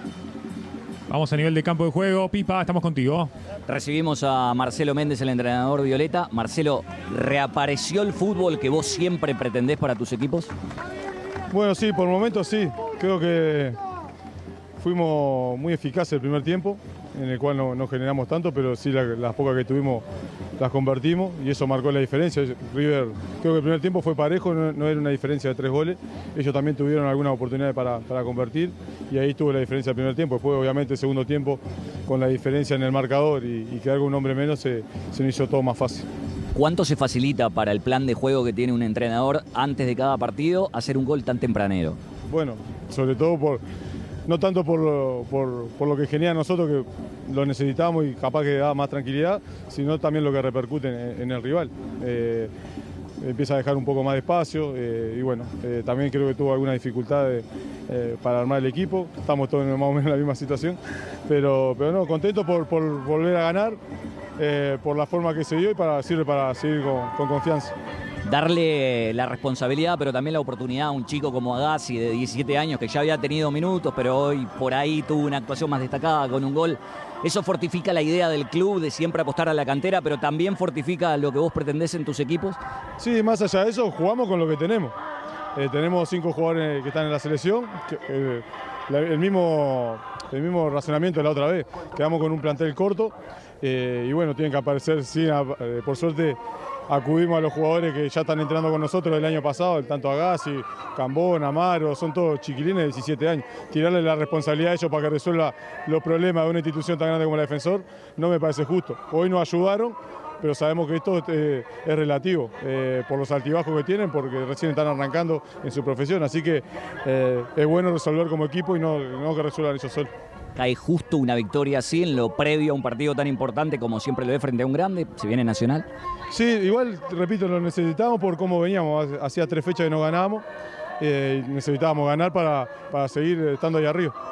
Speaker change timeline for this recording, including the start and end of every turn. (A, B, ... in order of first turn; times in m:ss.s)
0:01.1-0:03.3 A
0:03.7-0:10.5 B
0:11.5-0:13.8 C
0:14.8-0:20.0 C
0:20.6-0:36.1 C
0:36.6-0:42.0 B
0:42.3-0:43.6 C
0:44.3-0:52.5 C
0:53.2-1:03.8 C
1:04.4-1:07.8 C
1:08.3-1:22.6 B
1:23.0-1:25.0 C
1:25.6-1:36.4 C
1:36.9-2:00.1 C
2:00.6-2:05.9 B
2:06.3-2:10.4 C
2:11.0-2:14.1 C